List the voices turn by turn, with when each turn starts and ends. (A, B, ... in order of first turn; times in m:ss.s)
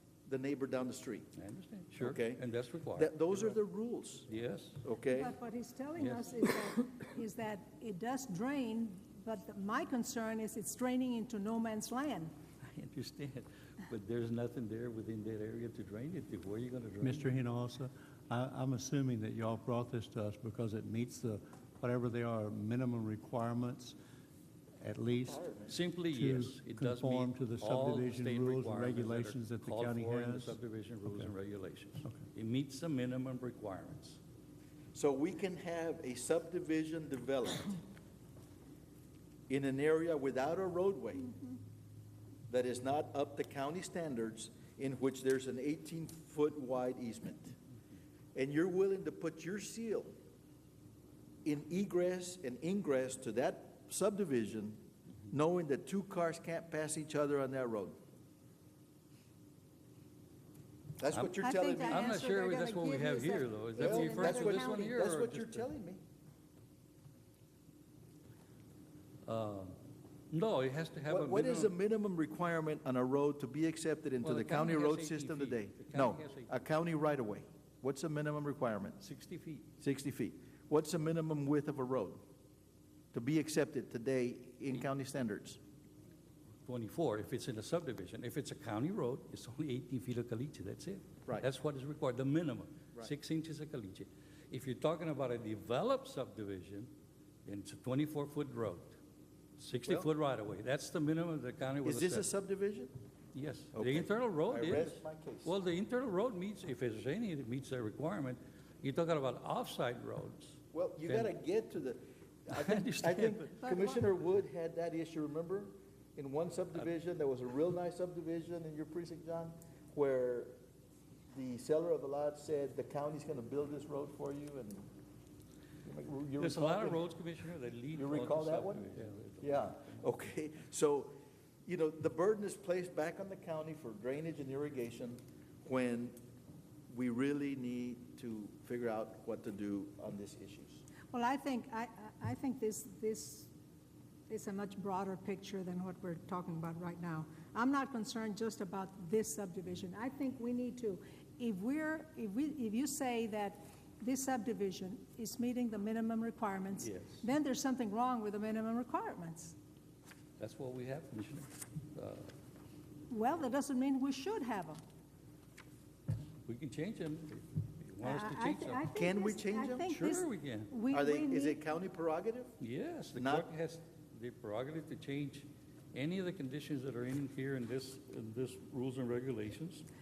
0:00.3-0:01.3 A
0:01.4-0:03.6 B
0:02.0-0:04.3 A
0:04.3-0:04.8 B
0:04.8-0:05.3 A
0:05.1-0:12.3 C
0:06.0-0:06.3 B
0:12.7-0:17.4 B
0:17.0-0:24.0 D
0:24.8-0:25.4 D
0:25.1-0:25.8 A
0:25.7-0:34.2 B
0:26.0-0:30.6 D
0:34.9-0:37.8 A
0:39.5-0:41.3 A
0:42.5-0:47.6 A
0:48.3-0:50.1 A
0:51.4-0:58.0 A
1:01.0-1:02.0 A
1:01.4-1:05.0 C
1:01.8-1:05.6 B
1:03.8-1:06.0 A
1:09.2-1:09.7 B
1:10.3-1:11.7 B
1:11.0-1:19.0 A
1:14.2-1:16.5 B
1:19.0-1:19.7 B
1:19.8-1:22.2 A
1:23.1-1:25.6 A
1:26.6-1:36.9 B
1:37.4-1:39.0 B
1:39.6-1:42.3 B
1:41.8-1:42.9 A
1:43.3-1:51.3 B
1:43.7-1:45.5 A
1:50.7-2:00.5 A
1:52.5-1:53.5 B
1:53.6-1:54.0 C
2:01.3-2:04.9 A
2:05.8-2:07.0 A
2:06.4-2:10.1 B
2:07.9-2:11.1 A
2:11.6-2:16.2 A
2:16.9-2:20.8 A
2:21.1-2:23.5 C
2:24.3-2:39.5 C
2:36.8-2:37.2 B
2:40.4-2:42.3 B
2:43.1-2:44.8 C
2:46.5-2:48.8 B
2:48.0-2:51.6 C
2:48.9-2:49.9 A
2:49.9-2:50.7 B
2:50.9-2:52.5 A
2:52.6-2:59.9 B
2:53.1-2:53.5 A